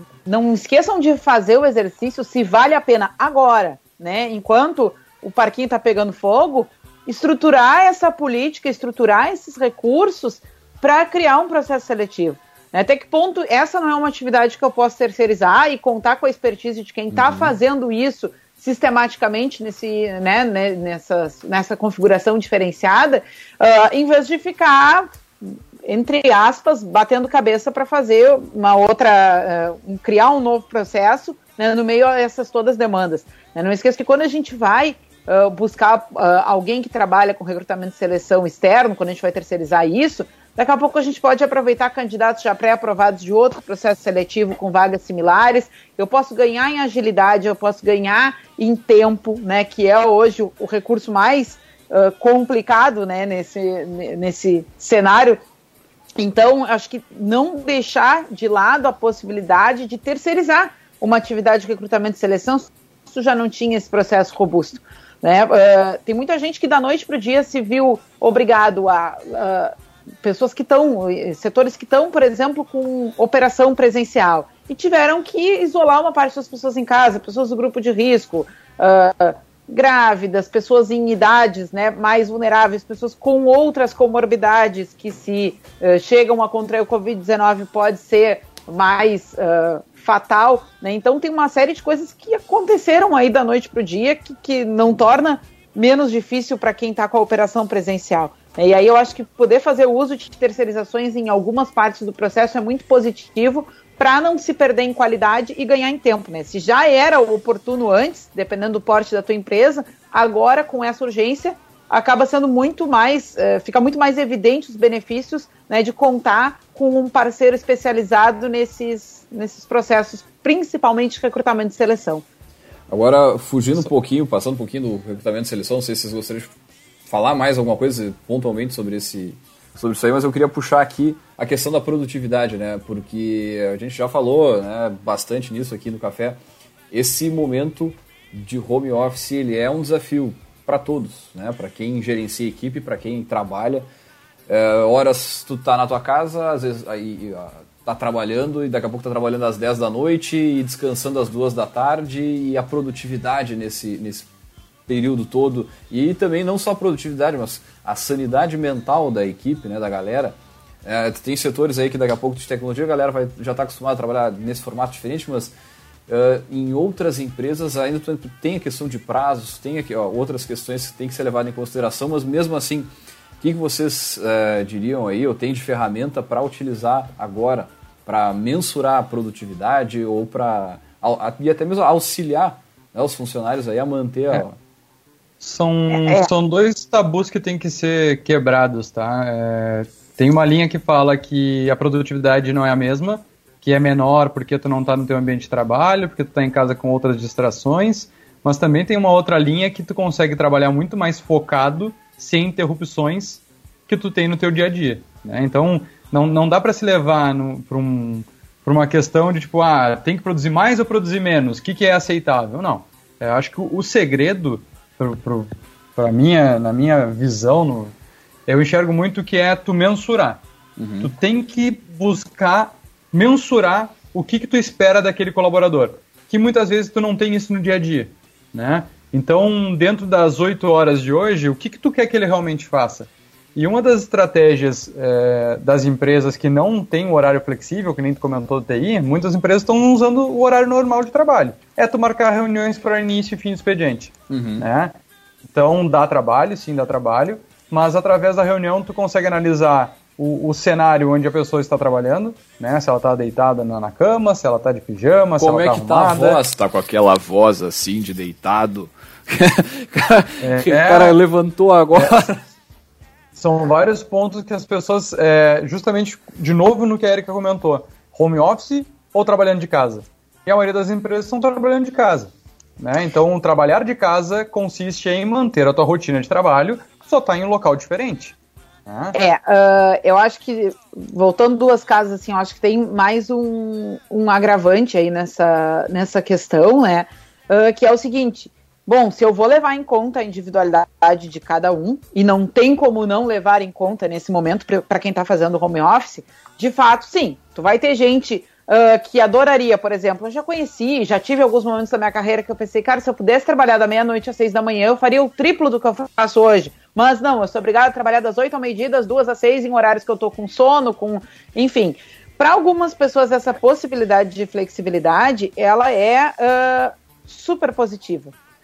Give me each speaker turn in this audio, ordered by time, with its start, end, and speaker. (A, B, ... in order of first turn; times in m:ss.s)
0:00.2-0:55.4 A
0:17.1-0:17.5 B
0:56.2-2:02.2 A
2:02.9-2:06.5 B
2:07.1-2:16.4 B
2:16.9-2:23.9 B
2:24.5-2:34.3 B
2:34.9-2:45.5 B
2:46.1-3:04.6 B
3:05.4-3:37.9 C
3:05.9-3:06.3 A
3:38.5-3:40.4 C
3:40.8-3:41.1 B
3:41.0-4:04.9 C
4:04.3-4:04.6 B
4:05.5-4:16.4 C
4:15.4-4:22.4 B
4:20.4-4:21.2 C
4:23.4-4:38.4 C
4:38.9-4:39.1 C
4:39.1-5:18.3 A